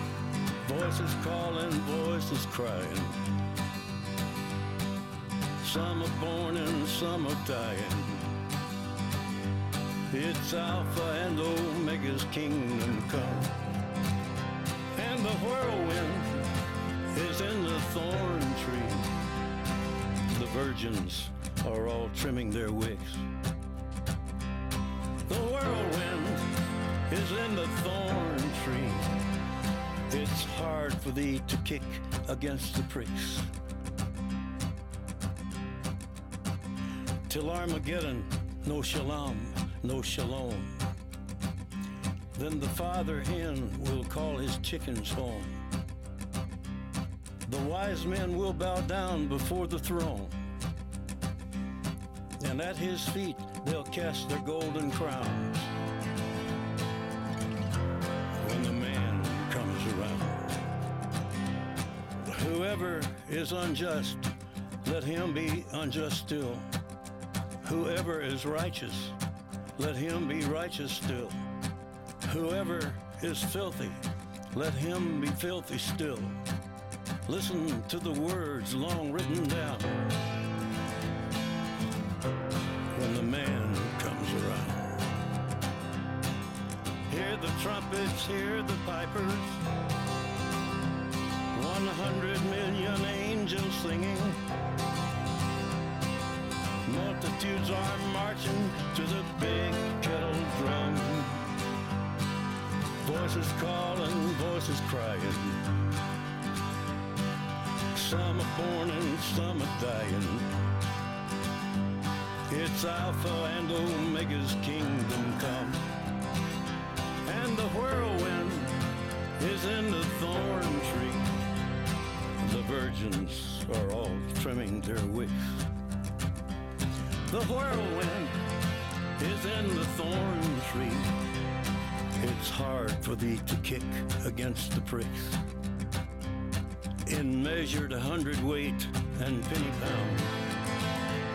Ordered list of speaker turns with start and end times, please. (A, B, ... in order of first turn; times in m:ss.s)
0:00.6-0:03.2 A
0:05.6-0:08.3 A
0:10.1-0:13.5 A
0:14.9-0:16.3 A
0:17.1-0:19.1 A
0:20.3-0:23.3 A
0:25.3-0:26.5 A
0:27.1-0:29.1 A
0:30.1-0:33.5 A
0:37.3-0:40.8 A
0:42.3-0:45.6 A
0:47.4-0:50.4 A
0:52.4-0:55.7 A
0:58.4-1:00.7 A
1:02.3-1:04.3 A
1:04.8-1:06.7 A
1:07.6-1:09.2 A
1:09.8-1:11.4 A
1:12.2-1:14.0 A
1:14.5-1:16.4 A
1:17.2-1:20.0 A
1:22.9-1:25.0 A
1:27.1-1:29.6 A
1:31.5-1:34.4 A
1:36.8-1:41.5 A
1:43.0-1:45.6 A
1:47.9-1:50.5 A
1:52.5-1:55.8 A
1:57.2-1:58.8 A
1:59.4-2:01.3 A
2:02.4-2:05.7 A
2:07.3-2:08.4 A
2:09.2-2:11.1 A
2:12.2-2:15.4 A
2:17.1-2:20.4 A